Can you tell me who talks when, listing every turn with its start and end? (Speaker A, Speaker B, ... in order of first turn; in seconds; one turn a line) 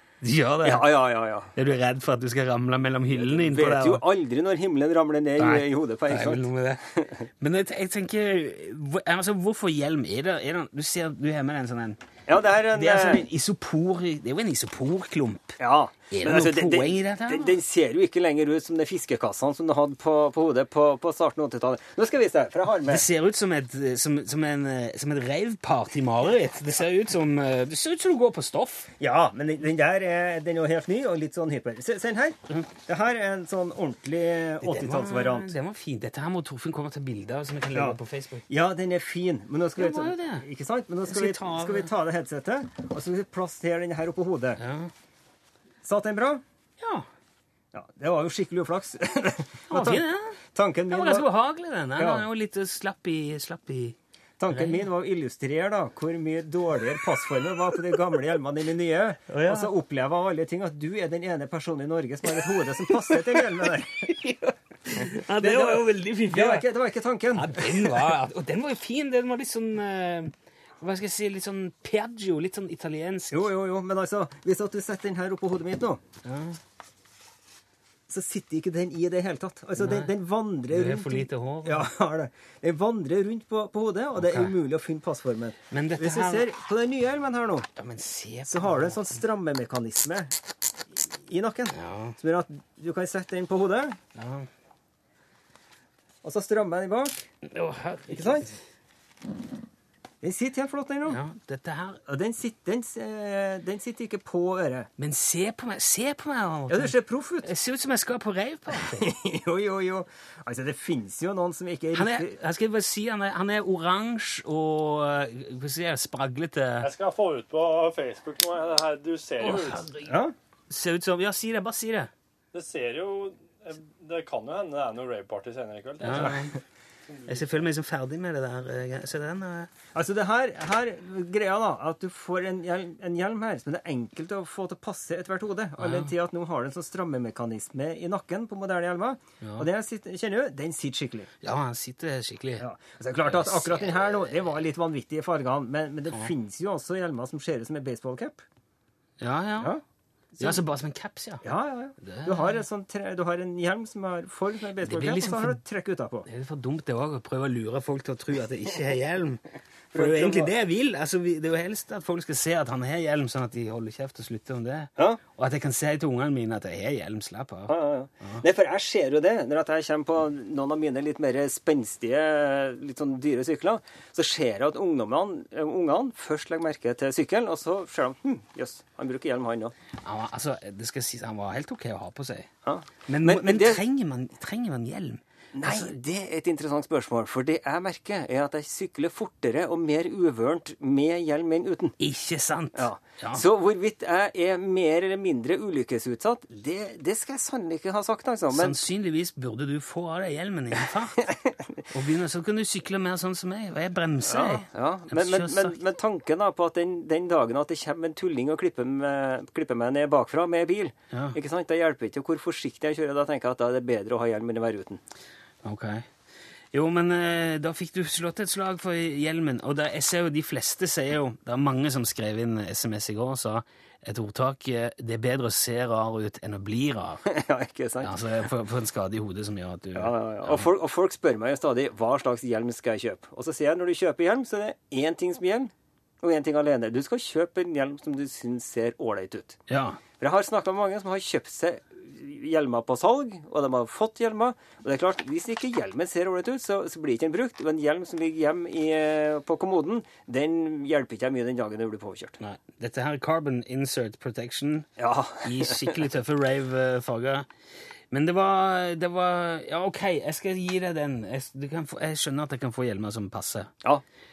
Speaker A: 0.2-0.9
Speaker B: 0.6-1.5
Speaker A: 1.6-4.0
Speaker B: 3.2-7.2
Speaker A: 5.4-6.9
Speaker A: 7.4-12.0
Speaker B: 12.3-13.2
Speaker A: 12.7-15.6
Speaker B: 15.6-23.1
Speaker A: 16.1-17.6
Speaker A: 22.9-28.9
Speaker B: 29.0-35.5
Speaker A: 34.6-38.4
Speaker B: 38.5-44.6
Speaker A: 39.8-40.5
Speaker A: 41.1-41.9
Speaker A: 44.6-44.9
Speaker B: 45.8-46.4
Speaker A: 46.8-47.1
Speaker B: 47.7-51.3
Speaker A: 49.7-50.4
Speaker A: 50.9-54.0
Speaker B: 52.0-52.2
Speaker B: 54.4-64.1
Speaker A: 54.5-54.8
Speaker A: 59.3-59.7
Speaker A: 63.1-63.4
Speaker A: 64.0-66.7
Speaker B: 65.4-68.1
Speaker A: 67.3-73.5
Speaker B: 73.3-76.0
Speaker A: 76.2-76.6
Speaker B: 78.1-87.7
Speaker A: 79.8-80.1
Speaker A: 80.7-81.9
Speaker A: 84.2-84.5
Speaker A: 85.7-86.5
Speaker A: 87.8-89.0
Speaker B: 88.5-90.3
Speaker B: 91.0-94.0
Speaker A: 91.7-92.2
Speaker A: 94.2-94.5
Speaker B: 96.2-97.2
Speaker A: 97.5-98.5
Speaker B: 98.1-98.5
Speaker B: 100.2-101.2
Speaker A: 101.1-102.0
Speaker B: 102.1-104.9
Speaker A: 105.0-109.1
Speaker B: 106.7-107.5
Speaker B: 108.7-112.3
Speaker A: 111.9-116.9
Speaker C: 116.8-119.9
Speaker A: 119.4-120.1
Speaker B: 120.1-120.3
Speaker A: 120.7-122.1
Speaker C: 122.5-126.5
Speaker A: 126.0-126.5
Speaker C: 127.1-127.6
Speaker A: 127.3-129.7
Speaker B: 129.9-141.3
Speaker A: 135.8-136.1
Speaker A: 139.4-139.7
Speaker A: 141.4-142.7
Speaker B: 142.6-148.4
Speaker A: 143.2-144.0
Speaker A: 149.2-149.7
Speaker A: 150.4-151.4
Speaker B: 151.4-156.3
Speaker A: 152.0-152.6
Speaker A: 154.8-155.6
Speaker A: 156.2-159.4
Speaker B: 159.9-160.5
Speaker A: 159.9-168.4
Speaker B: 167.7-179.7
Speaker A: 180.0-182.5
Speaker B: 182.6-183.8
Speaker A: 183.1-185.9
Speaker B: 185.5-192.0
Speaker A: 192.0-193.5
Speaker B: 192.8-198.8
Speaker A: 198.5-201.3
Speaker B: 201.2-201.5
Speaker A: 201.9-205.8
Speaker B: 204.2-215.0
Speaker A: 211.1-211.4
Speaker A: 215.6-216.1
Speaker A: 216.7-227.2
Speaker B: 227.2-228.2
Speaker A: 228.0-230.7
Speaker B: 229.9-239.6
Speaker A: 239.7-240.0
Speaker B: 240.2-252.4
Speaker A: 252.4-254.9
Speaker B: 255.0-256.0
Speaker A: 255.4-257.5
Speaker A: 258.1-263.7